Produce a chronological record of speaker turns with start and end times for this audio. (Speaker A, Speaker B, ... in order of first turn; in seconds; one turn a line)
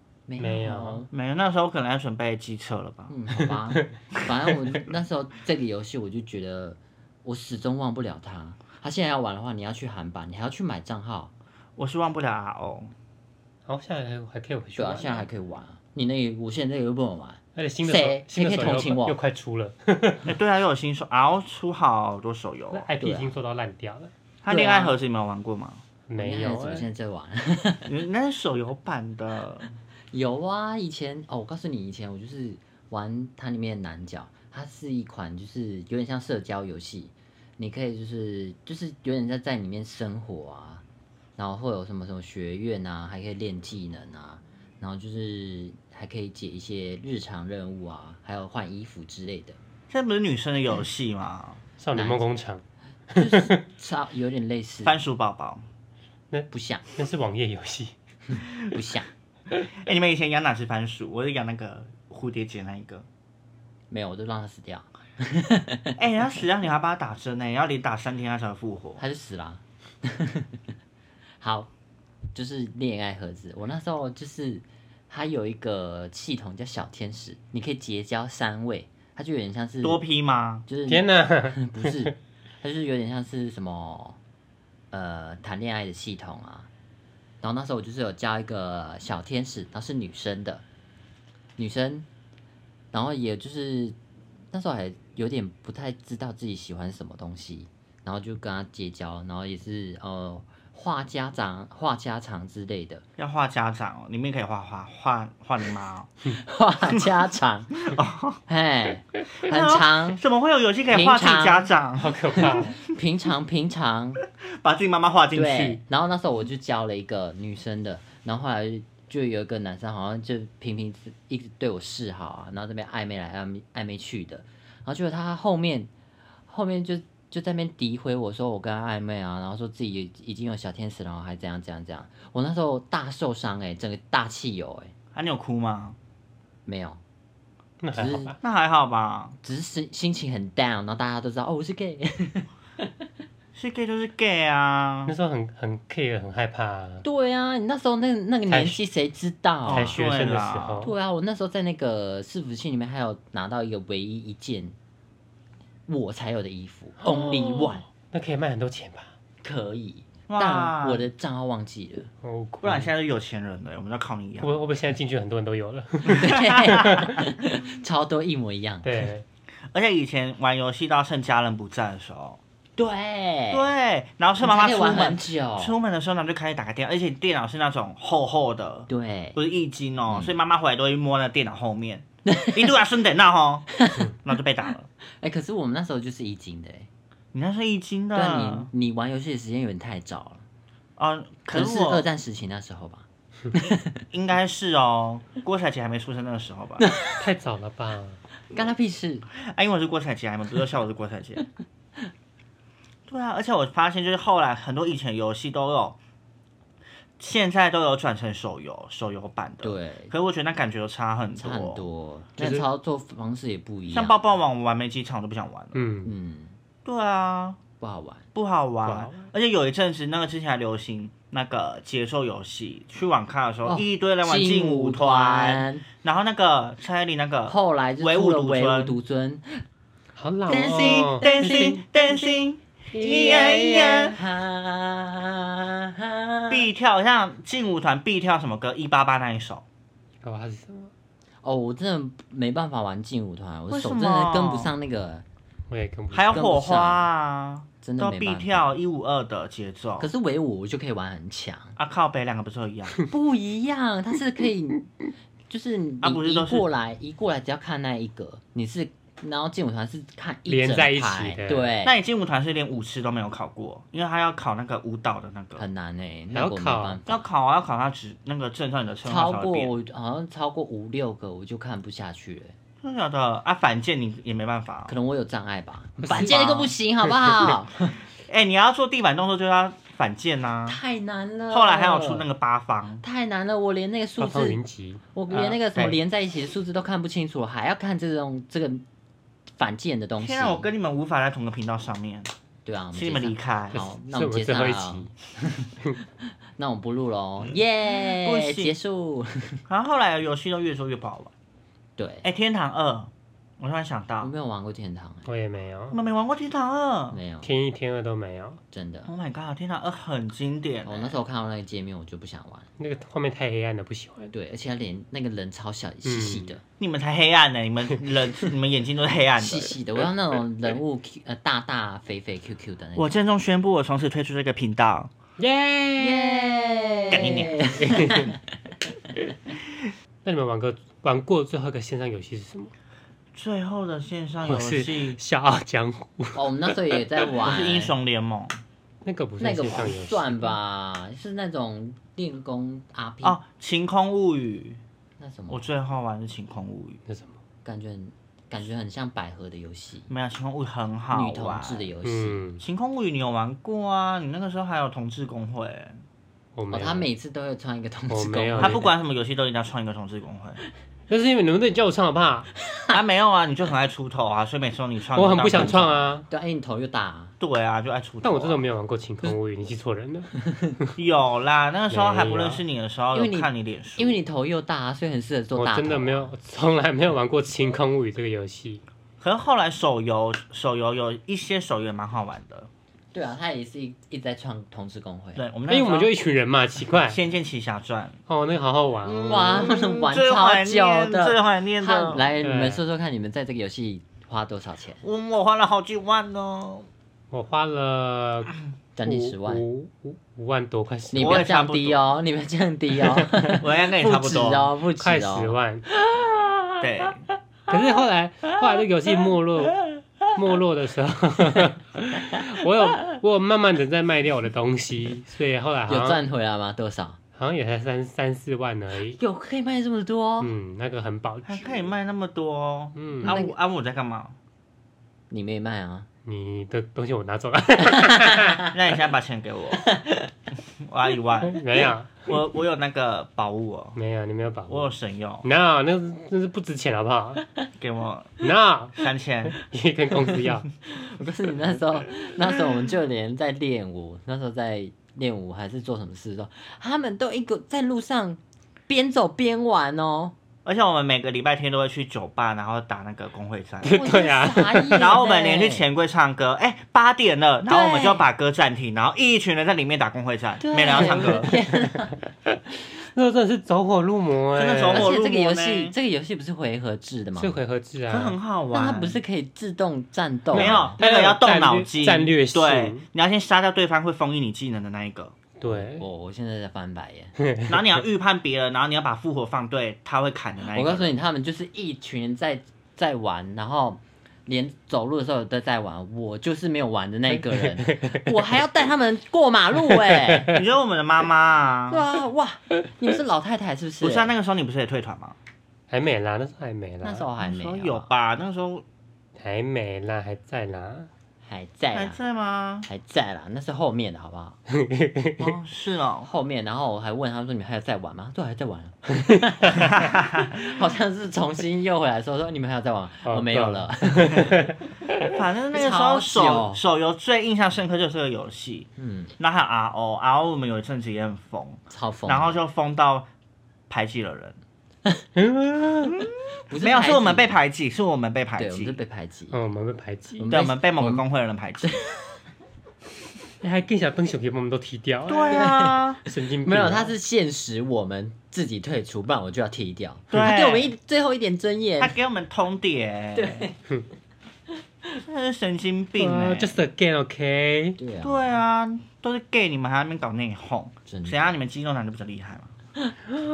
Speaker A: 0.3-1.1
Speaker B: 0.4-1.0
Speaker C: 1.1-3.1
Speaker A: 3.1-11.3
Speaker C: 11.8-12.9
Speaker B: 13.7-15.2
Speaker A: 14.8-19.2
Speaker B: 17.6-20.3
Speaker C: 20.2-22.9
Speaker B: 22.7-24.1
Speaker A: 23.0-23.3
Speaker C: 24.4-25.8
Speaker A: 24.5-24.9
Speaker B: 26.1-26.9
Speaker A: 26.2-27.9
Speaker C: 27.9-29.7
Speaker A: 30.1-40.8
Speaker A: 41.4-49.6
Speaker C: 49.9-51.6
Speaker B: 51.8-52.6
Speaker A: 51.9-52.2
Speaker B: 53.1-53.6
Speaker A: 53.1-55.0
Speaker C: 54.8-55.6
Speaker B: 56.3-57.9
Speaker A: 56.5-56.8
Speaker A: 58.3-59.1
Speaker C: 59.7-63.0
Speaker A: 63.9-66.0
Speaker C: 66.0-69.0
Speaker A: 69.0-70.6
Speaker A: 71.4-71.7
Speaker A: 72.3-80.0
Speaker C: 79.8-80.6
Speaker A: 80.7-84.2
Speaker B: 80.9-82.1
Speaker A: 84.9-86.7
Speaker A: 87.4-90.6
Speaker A: 91.6-92.1
Speaker A: 92.9-94.0
Speaker A: 94.5-103.0
Speaker C: 103.2-106.1
Speaker A: 106.3-107.9
Speaker C: 107.8-108.4
Speaker A: 108.5-110.2
Speaker C: 109.4-112.6
Speaker A: 110.9-111.7
Speaker B: 112.0-112.8
Speaker A: 112.4-114.2
Speaker C: 114.5-115.8
Speaker A: 115.3-125.9
Speaker A: 126.5-134.9
Speaker C: 135.1-136.0
Speaker A: 136.7-137.0
Speaker B: 137.8-138.3
Speaker A: 137.9-138.3
Speaker C: 138.4-139.3
Speaker A: 139.4-142.9
Speaker C: 143.5-145.1
Speaker B: 145.1-147.0
Speaker A: 147.0-150.0
Speaker B: 148.5-148.8
Speaker C: 149.6-150.9
Speaker B: 149.7-150.9
Speaker A: 150.8-154.7
Speaker A: 155.9-157.8
Speaker B: 157.1-159.1
Speaker A: 159.4-162.1
Speaker C: 160.3-161.0
Speaker B: 162.2-162.9
Speaker C: 162.6-164.5
Speaker B: 164.4-167.2
Speaker C: 166.1-167.1
Speaker A: 166.1-169.1
Speaker B: 168.8-169.2
Speaker C: 169.7-172.4
Speaker A: 172.8-173.7
Speaker C: 173.5-183.7
Speaker A: 174.4-175.7
Speaker A: 178.9-179.4
Speaker A: 182.2-182.8
Speaker A: 183.7-184.1
Speaker C: 184.2-184.9
Speaker A: 185.2-186.9
Speaker C: 187.3-188.7
Speaker A: 188.1-190.4
Speaker C: 191.0-192.1
Speaker A: 191.5-194.0
Speaker C: 194.1-196.8
Speaker A: 196.8-197.2
Speaker B: 197.2-198.2
Speaker A: 198.5-199.3
Speaker C: 199.4-201.4
Speaker C: 203.1-206.0
Speaker C: 207.2-211.8
Speaker A: 209.6-210.1
Speaker A: 211.4-214.2
Speaker B: 212.4-212.6
Speaker C: 213.9-215.8
Speaker B: 215.7-216.1
Speaker A: 216.0-216.5
Speaker C: 216.8-217.6
Speaker A: 217.8-218.3
Speaker C: 218.3-228.9
Speaker B: 218.8-219.3
Speaker A: 223.7-225.8
Speaker A: 227.5-229.6
Speaker B: 230.2-231.8
Speaker A: 230.5-232.4
Speaker C: 230.5-234.2
Speaker A: 232.9-236.7
Speaker B: 233.1-233.6
Speaker C: 236.5-239.6
Speaker B: 240.2-240.9
Speaker A: 241.4-245.2
Speaker C: 243.7-244.7
Speaker B: 245.7-246.4
Speaker C: 246.1-250.1
Speaker A: 246.3-247.1
Speaker A: 247.8-248.7
Speaker A: 250.0-251.8
Speaker C: 251.8-253.0
Speaker A: 253.1-254.9
Speaker A: 255.5-261.9
Speaker C: 256.0-256.6
Speaker B: 260.5-261.7
Speaker C: 261.8-265.6
Speaker A: 265.6-267.2
Speaker B: 266.3-267.0
Speaker C: 267.1-269.7
Speaker A: 269.0-272.5
Speaker C: 272.8-274.9
Speaker A: 274.9-277.9
Speaker B: 276.0-276.7
Speaker C: 276.1-276.7
Speaker C: 278.2-280.8
Speaker A: 280.7-282.2
Speaker C: 281.5-283.0
Speaker A: 283.0-284.6
Speaker B: 284.2-285.0
Speaker A: 285.1-288.8
Speaker C: 285.3-286.0
Speaker A: 289.6-290.7
Speaker C: 290.2-292.3
Speaker A: 292.6-295.7
Speaker C: 292.9-293.8
Speaker B: 293.7-295.1
Speaker A: 296.6-299.6
Speaker C: 297.9-298.7
Speaker C: 299.7-301.3
Speaker A: 302.0-302.2
Speaker C: 302.2-304.3
Speaker A: 304.2-305.3
Speaker B: 305.2-306.0
Speaker C: 305.9-307.2
Speaker A: 307.1-307.5
Speaker B: 307.4-308.6
Speaker A: 308.7-309.1
Speaker C: 309.1-311.1
Speaker A: 310.8-312.7
Speaker B: 312.8-314.3
Speaker A: 314.3-316.6
Speaker B: 316.0-316.5
Speaker C: 316.8-319.7
Speaker A: 319.4-323.1
Speaker C: 322.9-325.1
Speaker B: 325.4-326.6
Speaker A: 326.0-328.4
Speaker C: 327.1-327.6
Speaker B: 327.1-328.3
Speaker B: 330.2-332.7
Speaker C: 333.3-335.2
Speaker B: 334.4-337.0
Speaker A: 336.3-337.9
Speaker C: 337.4-338.6
Speaker B: 339.0-340.6
Speaker A: 339.4-343.4
Speaker C: 343.2-344.8
Speaker A: 345.2-345.7
Speaker C: 345.5-347.0
Speaker B: 347.1-347.3
Speaker A: 347.6-350.1
Speaker C: 350.1-351.9
Speaker A: 351.1-352.4
Speaker B: 352.0-352.6
Speaker C: 352.6-356.0
Speaker B: 356.6-357.1
Speaker A: 356.7-358.8
Speaker B: 358.1-358.8
Speaker C: 358.6-360.6
Speaker B: 361.1-362.5
Speaker C: 362.9-366.1
Speaker B: 365.1-366.2
Speaker A: 365.5-367.3
Speaker C: 367.4-368.6
Speaker B: 368.2-370.9
Speaker C: 371.0-374.2
Speaker B: 371.9-372.6
Speaker A: 373.1-376.3
Speaker B: 375.6-378.8
Speaker C: 379.2-382.7
Speaker A: 383.1-385.4
Speaker C: 385.4-386.1
Speaker B: 385.7-387.2
Speaker C: 387.0-388.2
Speaker B: 388.3-389.7
Speaker A: 389.1-395.0
Speaker C: 389.2-392.3
Speaker B: 392.4-392.8
Speaker C: 395.0-396.9
Speaker B: 397.3-401.4
Speaker A: 398.9-399.6
Speaker A: 401.1-406.8
Speaker C: 401.1-402.0
Speaker C: 403.6-404.7
Speaker B: 405.0-405.9
Speaker C: 406.8-407.2
Speaker B: 407.7-416.2
Speaker A: 415.9-417.2
Speaker B: 417.4-419.2
Speaker A: 419.1-420.5
Speaker B: 420.4-421.8
Speaker C: 421.4-424.4
Speaker B: 422.9-423.3
Speaker A: 423.2-423.5
Speaker A: 425.3-426.1
Speaker B: 426.2-428.7
Speaker A: 428.2-428.6
Speaker C: 428.7-429.9
Speaker A: 429.9-430.2
Speaker C: 430.8-434.0
Speaker B: 431.4-432.1
Speaker B: 433.9-434.9
Speaker C: 434.7-435.5
Speaker B: 435.4-437.4
Speaker C: 437.8-438.4
Speaker B: 438.4-440.7
Speaker C: 438.9-439.6
Speaker A: 440.9-450.3
Speaker C: 450.6-454.0
Speaker B: 453.8-455.1
Speaker A: 453.9-455.8
Speaker C: 455.0-461.5
Speaker A: 457.6-458.2
Speaker A: 460.6-462.1
Speaker B: 460.9-465.1
Speaker C: 464.5-465.9
Speaker A: 464.9-467.6
Speaker B: 467.4-468.4
Speaker C: 468.1-469.2
Speaker A: 468.7-471.0
Speaker B: 470.5-473.0
Speaker C: 470.5-475.3
Speaker B: 475.6-476.0
Speaker A: 475.6-477.3
Speaker B: 477.4-477.8
Speaker C: 477.7-481.1
Speaker A: 480.7-490.5
Speaker B: 487.5-488.4
Speaker C: 490.5-492.0
Speaker A: 491.9-494.3
Speaker C: 494.0-495.4
Speaker B: 495.9-497.3
Speaker A: 497.0-498.1
Speaker C: 497.4-498.8
Speaker B: 499.4-501.1
Speaker A: 501.4-502.2
Speaker C: 501.9-502.9
Speaker A: 502.9-504.6
Speaker B: 504.7-505.5
Speaker C: 505.4-506.3
Speaker A: 506.2-514.7
Speaker C: 509.9-510.5
Speaker B: 513.2-515.3
Speaker C: 515.2-523.3
Speaker A: 515.7-516.8
Speaker A: 519.0-519.3
Speaker A: 521.9-522.6
Speaker C: 523.9-524.6
Speaker B: 525.4-526.2
Speaker A: 526.7-527.5
Speaker C: 526.8-529.0
Speaker A: 528.6-529.6
Speaker B: 529.5-530.5
Speaker A: 530.4-531.2
Speaker C: 530.5-531.9
Speaker A: 531.8-532.3
Speaker B: 533.6-537.1
Speaker C: 535.2-536.2
Speaker A: 535.5-542.1
Speaker C: 540.3-540.9
Speaker C: 542.0-543.7
Speaker A: 543.3-543.8
Speaker C: 545.2-546.8
Speaker B: 546.2-548.0
Speaker A: 548.0-548.5
Speaker C: 548.2-552.7
Speaker A: 551.0-551.5